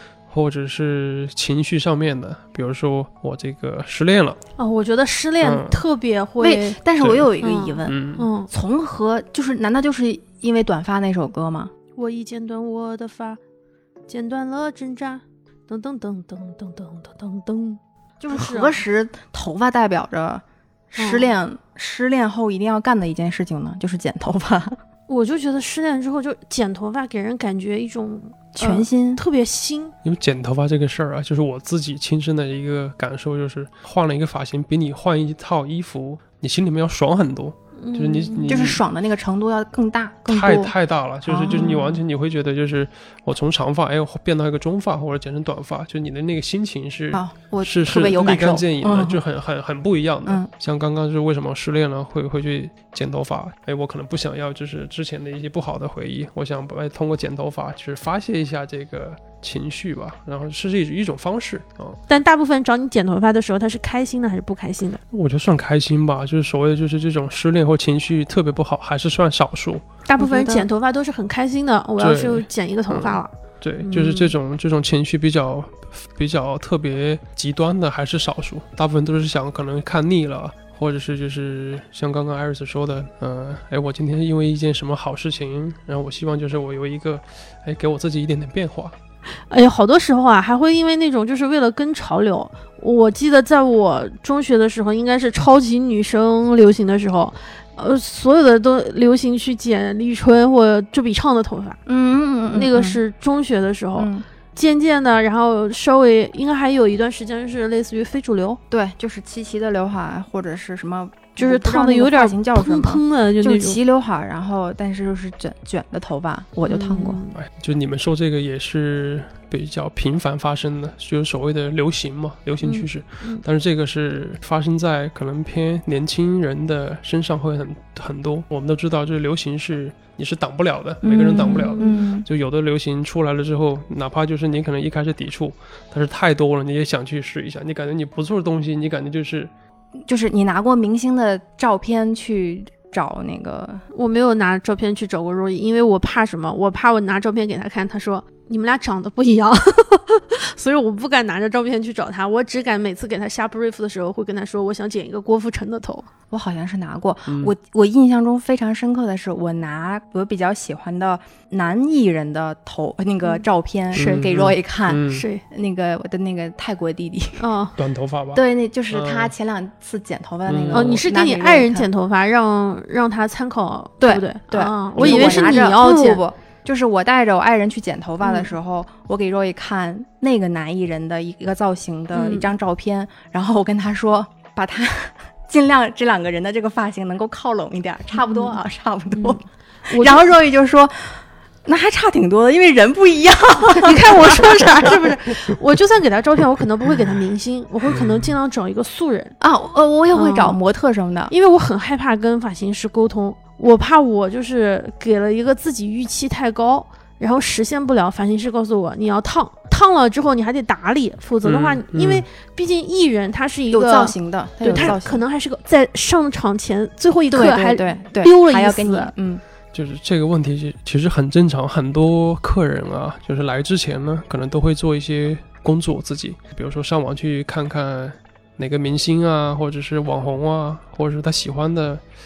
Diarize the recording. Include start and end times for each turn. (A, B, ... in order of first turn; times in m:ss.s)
0:00.3-0:04.4 A
0:04.6-0:06.8 B
0:05.4-0:05.8 A
0:06.4-0:08.0 C
0:07.0-0:07.3 A
0:07.4-0:08.5 B
0:07.8-0:08.3 A
0:08.5-0:11.7 C
0:12.0-0:13.4 B
0:14.1-0:17.8 B
0:18.2-0:24.8 C
0:18.3-0:18.8 B
0:21.0-0:21.3 B
0:25.1-0:29.9 B
0:28.5-0:29.2 C
0:30.0-0:38.8 A
0:37.8-0:38.6 B
0:38.5-0:40.7 C
0:40.3-1:02.0 A
0:41.2-0:42.0 C
0:47.1-0:49.2 C
1:02.1-1:05.0 B
1:05.1-1:09.8 A
1:10.1-1:10.7 C
1:10.1-1:14.3 B
1:12.0-1:28.9 A
1:29.5-1:41.8 B
1:41.8-1:43.0 C
1:42.5-1:48.6 B
1:44.0-1:44.2 C
1:48.7-1:57.2 C
1:51.4-1:53.8 B
1:56.6-1:57.4 B
1:57.3-2:19.5 A
2:02.6-2:03.4 B
2:11.0-2:12.3 C
2:11.4-2:12.0 B
2:20.0-2:23.8 C
2:23.9-2:36.1 B
2:36.3-2:47.4 C
2:43.9-2:45.2 A
2:43.9-2:44.3 B
2:45.1-2:45.4 B
2:47.4-2:47.8 B
2:47.8-2:49.3 A
2:48.3-2:51.9 C
2:50.5-2:51.0 A
2:50.7-2:56.2 B
2:54.0-3:14.5 C
2:55.0-2:55.6 A
2:58.2-2:58.5 B
3:02.1-3:02.5 B
3:08.2-3:08.6 B
3:09.1-3:10.3 B
3:13.6-3:19.4 B
3:17.9-3:18.3 A
3:19.4-3:21.3 C
3:20.1-3:20.6 B
3:21.3-3:39.1 B
3:31.4-3:32.2 A
3:33.7-3:35.2 C
3:34.7-3:35.0 A
3:37.3-3:39.4 C
3:39.7-3:52.0 A